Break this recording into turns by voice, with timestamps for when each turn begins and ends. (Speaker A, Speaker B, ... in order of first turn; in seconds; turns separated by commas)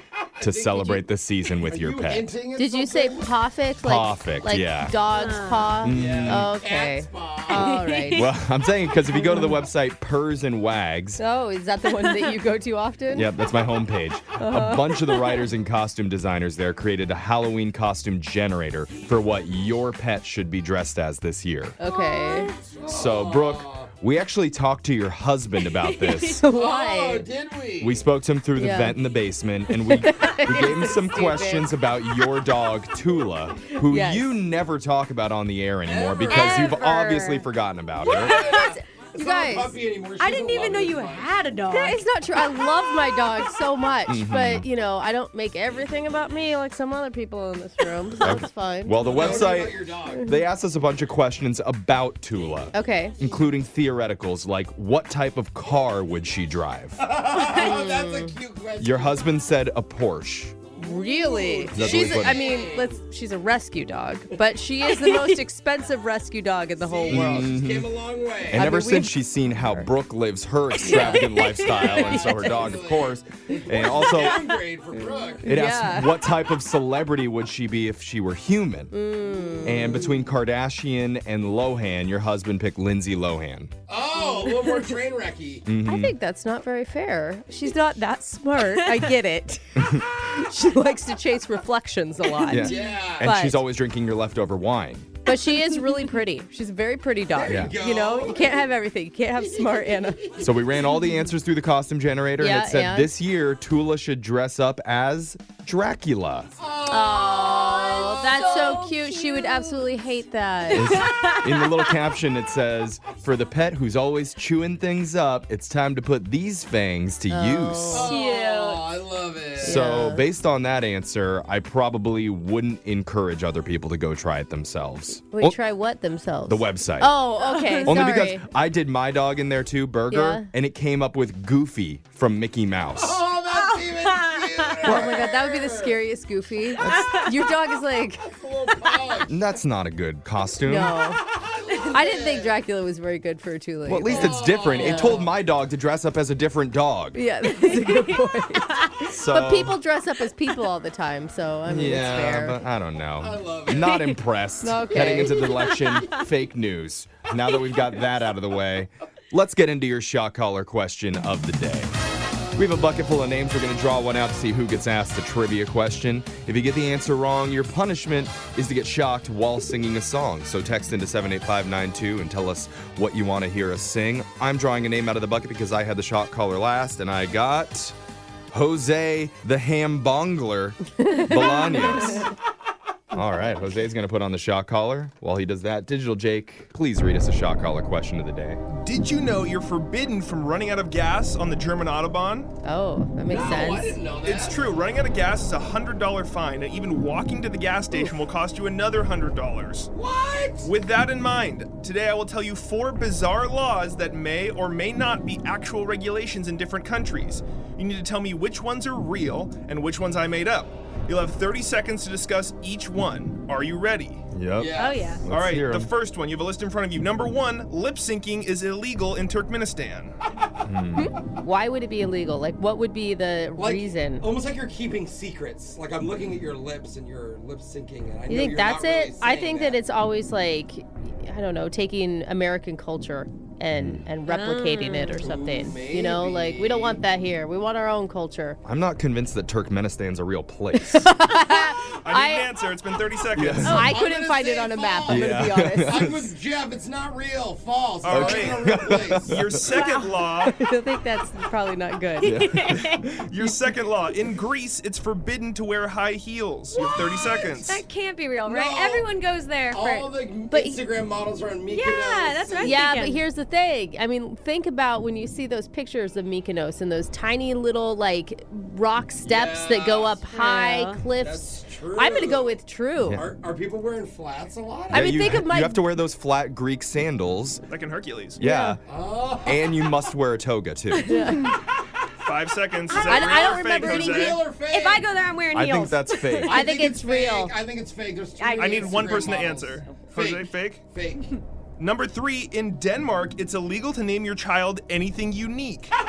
Speaker A: 0.3-1.1, Speaker B: 0.4-2.3, Speaker A: 1.6-3.3, Speaker C: 2.6-8.3, Speaker B: 3.8-5.0, Speaker D: 5.1-5.9, Speaker B: 5.8-6.5, Speaker A: 5.9-7.8, Speaker D: 7.5-8.3, Speaker B: 8.2-11.2, Speaker D: 9.2-9.5, Speaker C: 11.2-13.3, Speaker D: 11.8-12.3, Speaker B: 13.1-21.8, Speaker C: 14.4-15.5, Speaker C: 21.8-22.5, Speaker D: 21.9-22.6, Speaker A: 22.8-23.9, Speaker B: 22.9-26.4, Speaker D: 25.8-26.4, Speaker C: 26.3-27.3, Speaker A: 26.5-28.1, Speaker B: 27.8-38.4, Speaker C: 28.6-29.0, Speaker C: 29.8-31.7, Speaker C: 33.8-34.4, Speaker A: 35.8-36.8, Speaker C: 36.3-37.4, Speaker D: 36.4-37.4, Speaker A: 38.0-41.3, Speaker D: 38.1-38.7, Speaker C: 38.4-39.8, Speaker D: 40.2-42.0, Speaker C: 41.7-49.7, Speaker B: 44.1-44.7, Speaker B: 48.2-57.0, Speaker A: 49.0-50.2, Speaker C: 52.7-53.3, Speaker A: 57.0-59.3, Speaker C: 57.4-58.3, Speaker B: 58.8-60.6, Speaker A: 60.8-63.0, Speaker C: 60.8-67.5, Speaker B: 61.7-62.4, Speaker D: 65.0-65.4, Speaker A: 66.8-68.7, Speaker B: 67.1-67.9, Speaker B: 68.5-74.5, Speaker C: 68.5-69.9, Speaker C: 70.8-72.7, Speaker A: 71.8-75.4, Speaker C: 73.7-74.1, Speaker C: 75.4-76.2, Speaker B: 75.5-78.9, Speaker C: 78.9-80.2, Speaker B: 79.6-83.7, Speaker A: 83.9-85.7, Speaker B: 85.7-86.1, Speaker C: 85.8-93.6, Speaker D: 88.6-89.0, Speaker B: 89.8-90.0, Speaker B: 92.5-95.1, Speaker A: 92.7-93.3, Speaker C: 95.2-100.4, Speaker A: 97.3-98.6, Speaker B: 97.5-97.8, Speaker B: 100.4-106.5, Speaker C: 102.4-103.1, Speaker A: 106.6-108.9, Speaker C: 106.9-110.9, Speaker D: 107.3-110.0, Speaker D: 110.7-112.0, Speaker B: 110.7-118.1, Speaker C: 117.3-118.1, Speaker A: 117.9-119.8, Speaker D: 118.1-118.9, Speaker B: 119.6-125.6, Speaker C: 119.6-120.3, Speaker C: 125.3-128.5, Speaker B: 126.5-127.2, Speaker D: 127.4-128.1, Speaker B: 127.8-133.2, Speaker C: 130.1-130.5, Speaker A: 132.9-136.0, Speaker D: 133.6-135.0, Speaker C: 134.8-138.4, Speaker B: 136.8-137.2, Speaker D: 136.9-137.3, Speaker A: 138.3-139.4, Speaker B: 139.3-140.9, Speaker C: 140.6-141.2, Speaker A: 141.3-142.5, Speaker C: 141.9-145.3, Speaker B: 143.9-147.2, Speaker A: 144.1-145.3, Speaker C: 147.1-152.6, Speaker D: 147.5-148.3, Speaker B: 149.1-149.8, Speaker B: 151.7-161.9, Speaker A: 153.2-154.1, Speaker C: 154.6-155.5, Speaker D: 155.3-156.2, Speaker B: 162.6-177.9, Speaker B: 178.5-182.3, Speaker C: 181.1-182.3, Speaker B: 183.1-188.6, Speaker E: 188.7-192.5, Speaker C: 192.6-194.0, Speaker A: 193.3-194.6, Speaker E: 194.2-199.9, Speaker A: 199.9-200.7, Speaker E: 200.6-214.2, Speaker B: 214.3-215.9, Speaker A: 214.6-215.2, Speaker D: 214.8-215.2, Speaker E: 215.3-220.1, Speaker B: 220.6-221.1, Speaker C: 221.0-224.3, Speaker A: 223.6-229.8, Speaker C: 228.3-238.6, Speaker B: 233.7-234.1, Speaker D: 234.3-235.3, Speaker A: 235.2-237.0, Speaker B: 238.7-241.1, Speaker C: 240.7-242.5, Speaker E: 242.0-243.8, Speaker B: 243.3-243.9, Speaker C: 243.7-246.1, Speaker A: 243.8-249.3, Speaker B: 245.1-246.2, Speaker E: 248.0-250.6, Speaker B: 248.1-249.7, Speaker D: 249.8-250.2, Speaker C: 250.5-252.3, Speaker D: 252.2-253.1, Speaker B: 252.2-253.4, Speaker E: 253.1-257.8, Speaker D: 256.7-260.1, Speaker A: 258.4-259.1, Speaker A: 259.7-262.8, Speaker C: 260.5-260.8, Speaker D: 261.7-263.3, Speaker C: 262.6-273.2, Speaker A: 269.2-270.2, Speaker D: 270.3-271.0, Speaker A: 271.1-275.3, Speaker C: 274.9-275.8, Speaker B: 274.9-277.6, Speaker E: 277.7-278.4, Speaker C: 278.4-278.8, Speaker B: 278.4-278.8, Speaker A: 278.9-279.8, Speaker B: 279.4-281.3, Speaker C: 281.1-281.6, Speaker D: 281.1-281.5, Speaker E: 282.2-284.4, Speaker D: 282.9-286.6, Speaker C: 283.1-283.9, Speaker A: 283.8-285.1, Speaker B: 285.5-286.6, Speaker A: 286.4-291.3, Speaker C: 286.5-287.5, Speaker D: 288.4-288.8, Speaker E: 288.6-290.8, Speaker E: 291.8-295.9